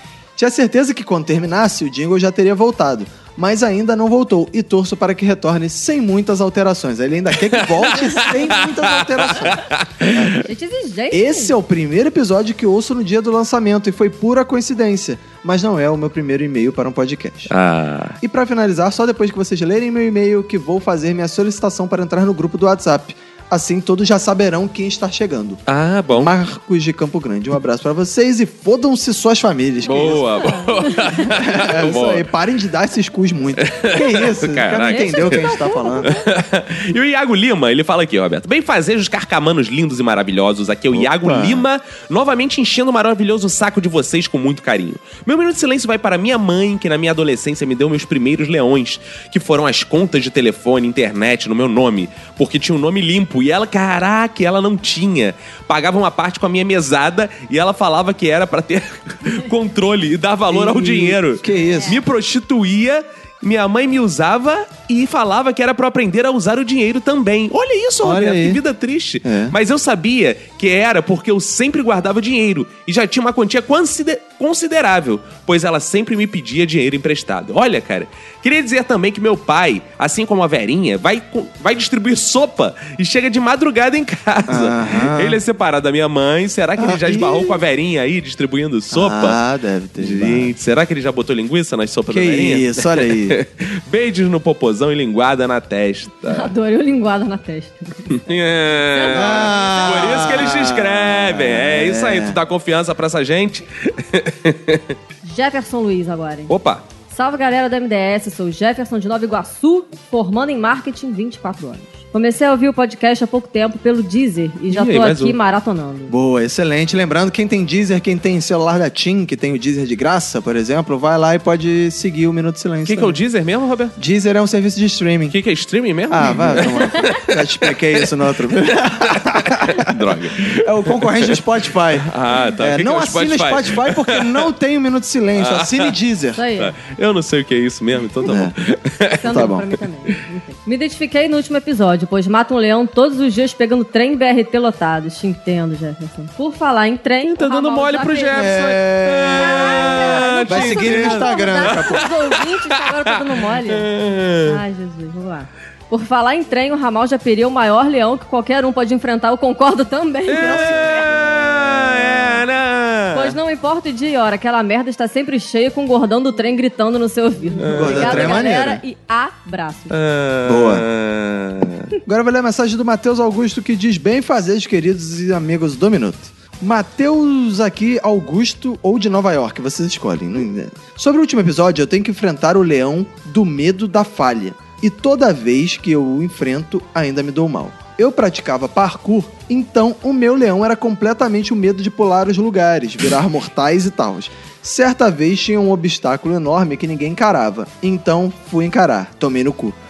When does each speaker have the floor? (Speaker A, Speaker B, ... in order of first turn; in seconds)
Speaker A: 0.4-10.4, 11.1-17.5, 18.2-25.6, 26.1-30.6, 31.2-36.1, 40.9-41.7, 60.5-62.0, 68.0-68.6, 69.2-69.6, 84.5-85.4, 86.8-87.6, 88.9-90.5, 92.1-93.4, 99.1-102.4, 116.1-123.2, 124.0-125.4, 126.1-136.4, 138.2-138.5, 139.3-139.7, 148.3-152.0, 160.4-161.9, 167.7-168.8, 170.4-170.9, 172.1-199.8
Speaker B: 7.5-10.4, 17.5-18.2, 25.7-26.3, 29.9-32.3, 33.6-89.4, 90.0-96.5, 98.2-104.9, 106.5-106.8, 114.7-115.4, 122.8-124.0, 125.3-128.1, 128.7-131.4, 132.0-134.5, 135.4-135.9, 136.6-140.2, 147.3-154.6, 160.3-163.4, 167.6-168.5, 169.9-171.9
Speaker C: 10.4-11.6, 29.9-31.3, 34.8-36.2, 61.6-62.0, 96.3-98.2, 98.9-100.5, 105.2-106.6, 107.1-116.1, 136.3-136.8, 139.2-148.7, 149.3-161.2, 163.1-170.0